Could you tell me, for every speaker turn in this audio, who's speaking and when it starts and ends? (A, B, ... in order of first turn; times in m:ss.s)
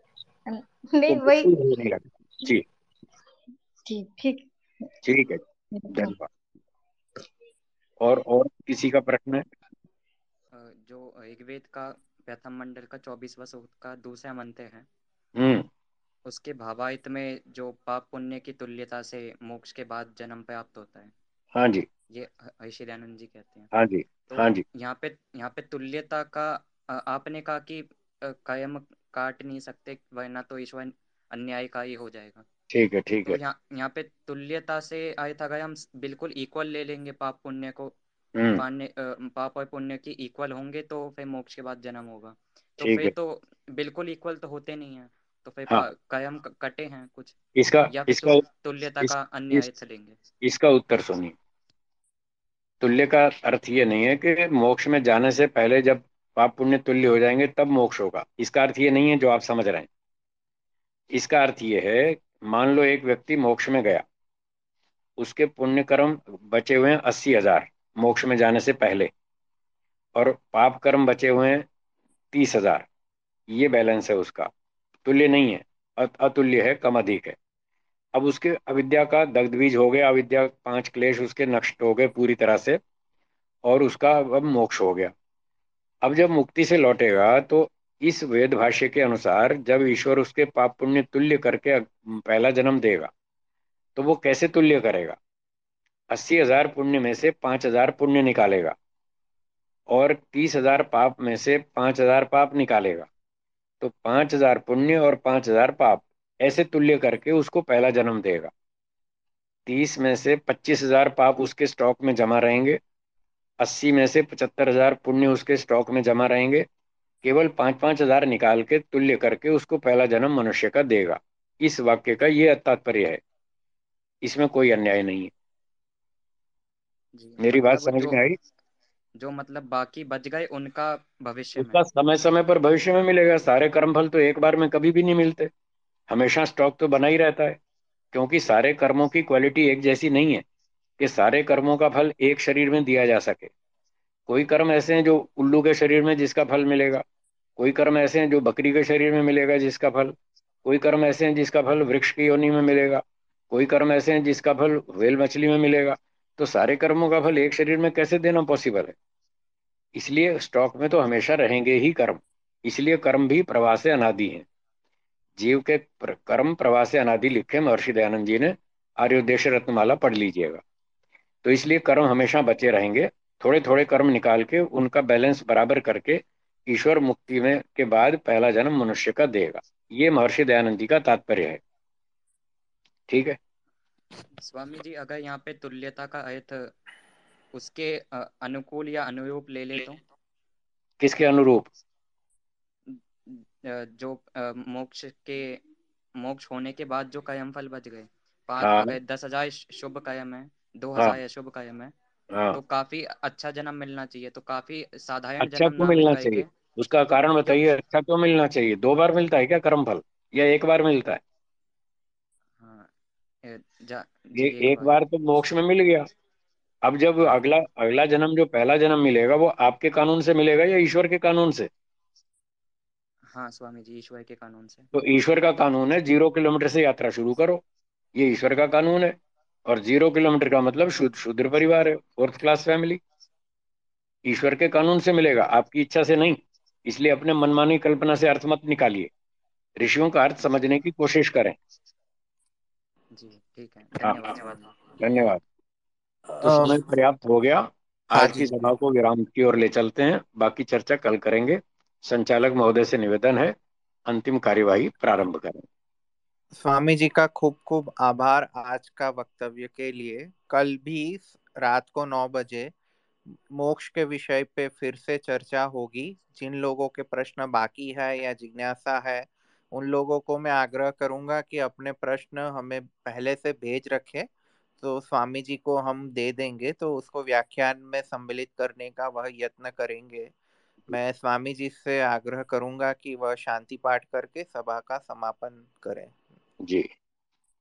0:00.5-0:01.5 A
0:01.1-0:02.6 B
0:03.8-0:04.9 A
0:05.0-0:06.3 B
0:05.7-0:06.2 A
0:08.0-0:09.4 B
0:10.8-0:14.9 C
0:15.4-0:15.7 B
0:16.3-0:21.1 C
0:21.6-0:21.9 B
0:22.1-0:23.7 C
0:23.7-0:24.6 B
0:24.3-0:32.4 C
0:32.7-0:33.4 B
0:33.3-0:38.0 C
0:38.4-0:38.6 B
0:38.6-0:47.4 C
0:42.8-0:43.1 B
0:47.6-0:48.4 B
0:47.9-0:50.2 C
0:49.1-0:49.6 B
0:50.4-0:51.4 B
0:52.8-0:59.9 B
1:01.1-1:04.0 B
1:05.2-1:09.1 B
1:10.2-1:11.7 B
1:12.3-1:12.9 B
1:13.5-1:14.5 B
1:15.0-1:17.4 B
1:18.1-1:22.8 B
1:23.6-1:25.1 B
1:26.0-1:33.1 B
1:34.0-1:35.2 B
1:36.1-1:38.7 B
1:39.9-1:43.1 B
1:43.8-1:48.5 B
1:49.7-1:52.8 B
1:53.6-1:56.7 B
1:57.2-2:03.2 B
2:04.2-2:05.3 B
2:07.2-2:08.2 C
2:07.4-2:08.4 B
2:09.2-2:11.8 C
2:11.6-2:15.5 B
2:16.1-2:17.6 B
2:18.1-2:20.4 B
2:21.0-2:23.5 B
2:24.3-2:27.0 B
2:27.6-2:39.0 B
2:40.0-2:44.4 B
2:45.4-2:50.6 B
2:51.4-3:01.6 B
3:03.1-3:03.4 B
3:04.4-3:06.7 C
3:07.5-3:10.0 C
3:11.0-3:11.7 B
3:13.3-3:15.6 C
3:16.2-3:21.9 C
3:18.6-3:18.9 B
3:22.5-3:26.5 C
3:25.4-3:31.2 B
3:32.6-3:32.9 C
3:33.5-3:35.0 C
3:34.4-3:36.1 B
3:36.8-3:41.7 B
3:43.3-3:44.9 C
3:44.9-3:47.6 B
3:48.2-3:53.0 B
3:54.3-3:59.1 B
3:59.8-4:01.6 B
4:03.2-4:05.0 C
4:04.0-4:04.4 B
4:05.0-4:05.4 B
4:06.4-4:06.8 D
4:06.4-4:13.6 B
4:08.2-4:08.7 D
4:14.1-4:15.6 B
4:16.6-4:22.7 D
4:23.5-4:34.3 D
4:34.8-4:40.3 D
4:40.9-4:46.2 D
4:46.6-4:46.9 B